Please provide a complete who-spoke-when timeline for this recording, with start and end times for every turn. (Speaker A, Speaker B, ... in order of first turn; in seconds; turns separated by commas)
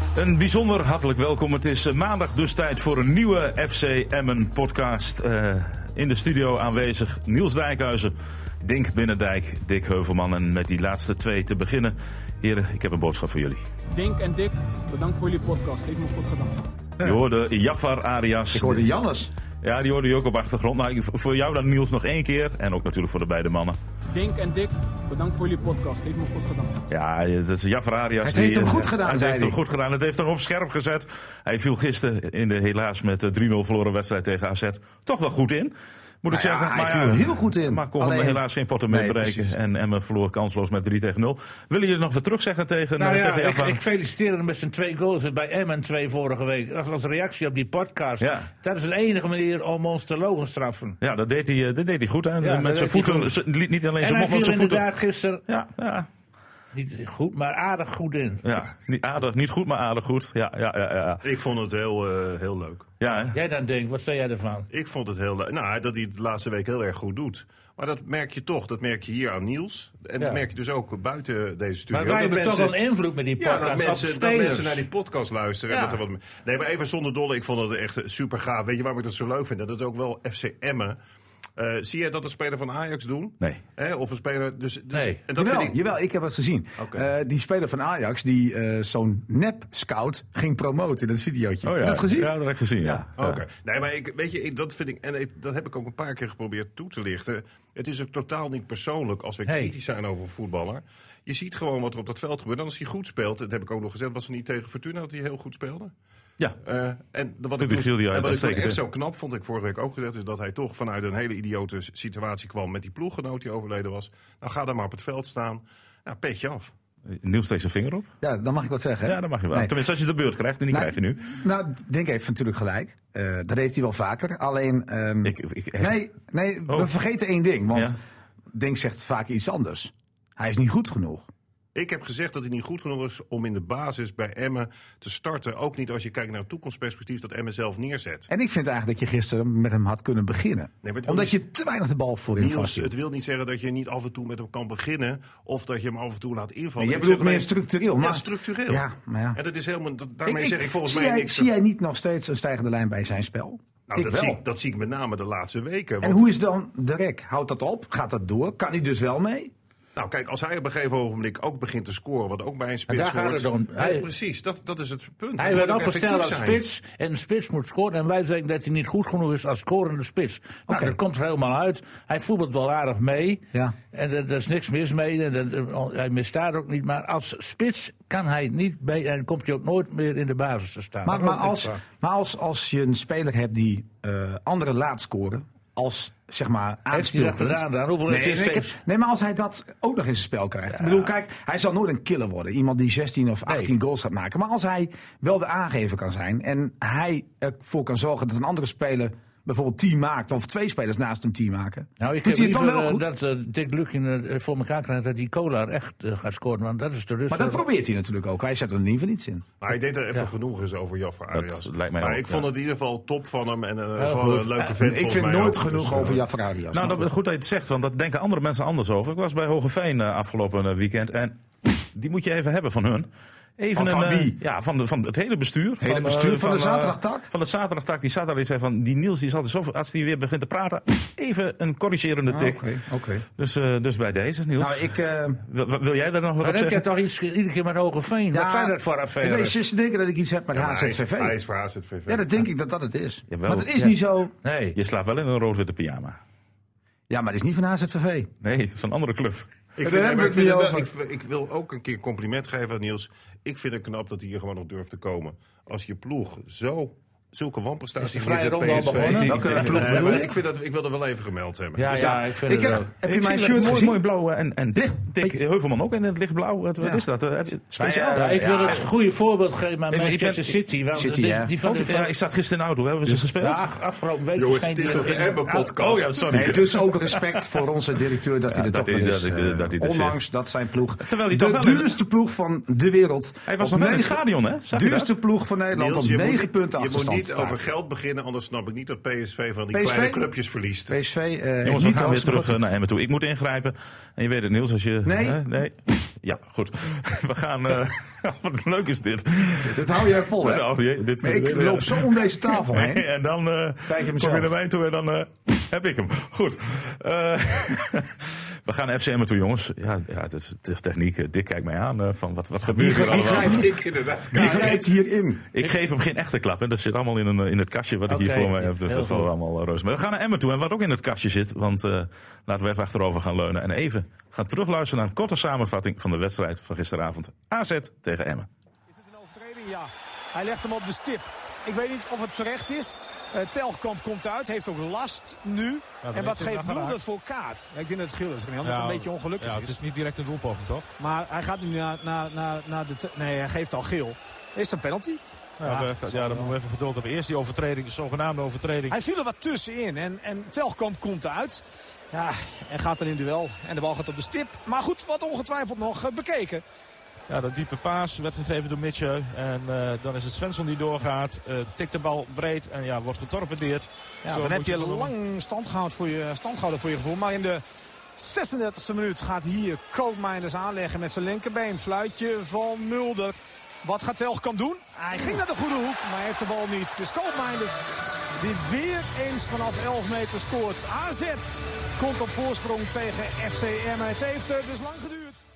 Speaker A: 0.1-13.7, Speaker B: 13.9-16.7, Speaker A: 17.0-18.8, Speaker C: 18.5-19.3, Speaker A: 19.6-23.8, Speaker B: 24.1-26.9, Speaker A: 26.9-43.8, Speaker C: 28.2-29.6, Speaker C: 36.3-39.5, Speaker D: 43.0-51.0, Speaker A: 48.2-48.5, Speaker A: 51.0-54.8, Speaker D: 52.4-53.3, Speaker D: 54.0-55.4, Speaker A: 55.5-56.1, Speaker D: 56.7-58.6, Speaker A: 58.4-61.2, Speaker E: 61.2-62.9, Speaker A: 63.0-63.4, Speaker D: 63.3-64.7, Speaker E: 64.7-72.7, Speaker D: 71.9-74.8, Speaker E: 73.4-81.0, Speaker D: 75.7-76.0, Speaker E: 81.6-85.8, Speaker D: 84.9-85.2, Speaker C: 85.3-93.0, Speaker E: 86.8-87.1, Speaker A: 91.6-93.4, Speaker E: 93.2-105.9, Speaker D: 99.5-99.7, Speaker E: 106.6-116.7, Speaker A: 107.6-108.8, Speaker A: 117.1-118.1, Speaker C: 118.2-119.8, Speaker A: 119.0-121.3, Speaker C: 120.7-128.0, Speaker A: 125.2-126.0, Speaker C: 128.5-131.3, Speaker E: 131.7-138.3, Speaker C: 138.3-142.9, Speaker E: 140.8-141.4, Speaker E: 142.4-151.5, Speaker C: 146.8-149.4, Speaker C: 150.2-154.4, Speaker E: 153.9-156.3, Speaker C: 156.0-159.5, Speaker E: 159.9-166.7, Speaker D: 162.9-164.1, Speaker D: 165.4-181.8, Speaker C: 170.7-170.9, Speaker C: 181.0-203.1, Speaker D: 186.9-188.8, Speaker D: 190.7-191.0, Speaker D: 193.5-193.7, Speaker D: 202.0-207.6, Speaker C: 207.3-209.4, Speaker E: 209.6-216.1, Speaker A: 211.3-212.5, Speaker D: 214.0-214.7, Speaker C: 214.7-217.1, Speaker A: 216.7-232.6, Speaker C: 223.7-224.4, Speaker C: 225.8-227.3, Speaker C: 232.3-233.2, Speaker A: 233.4-236.8, Speaker C: 234.6-235.4, Speaker D: 236.4-239.6, Speaker C: 238.3-241.3, Speaker E: 240.5-242.3, Speaker C: 242.1-244.3, Speaker A: 243.3-243.7, Speaker D: 244.4-244.8, Speaker A: 244.7-246.2, Speaker C: 247.1-248.3, Speaker A: 248.4-249.5, Speaker E: 249.8-262.2, Speaker C: 249.8-250.9, Speaker D: 258.0-260.2, Speaker A: 258.8-259.8, Speaker C: 259.2-260.3, Speaker D: 261.8-262.9, Speaker C: 262.0-264.0, Speaker A: 263.0-268.4, Speaker C: 267.7-268.8, Speaker D: 268.1-272.1, Speaker A: 269.9-270.6, Speaker C: 270.9-271.5, Speaker A: 271.6-273.6, Speaker D: 273.1-275.7, Speaker E: 274.4-276.5, Speaker A: 275.7-277.2, Speaker C: 276.3-287.6, Speaker A: 278.5-280.2, Speaker A: 281.0-281.9, Speaker A: 283.5-285.1, Speaker E: 285.7-290.9, Speaker C: 289.7-290.2, Speaker C: 290.9-292.6, Speaker A: 291.6-313.7, Speaker C: 295.0-295.4, Speaker C: 299.6-300.7, Speaker C: 301.2-303.1, Speaker C: 303.9-304.5, Speaker C: 312.8-313.7, Speaker E: 312.8-314.8, Speaker C: 314.3-315.5, Speaker A: 315.5-328.5, Speaker D: 318.1-319.3, Speaker F: 328.9-339.8, Speaker G: 336.0-337.0, Speaker G: 338.6-340.9, Speaker F: 341.0-346.5, Speaker G: 345.6-349.0, Speaker F: 348.9-356.6, Speaker G: 357.3-365.1, Speaker F: 364.2-367.6, Speaker F: 368.1-385.4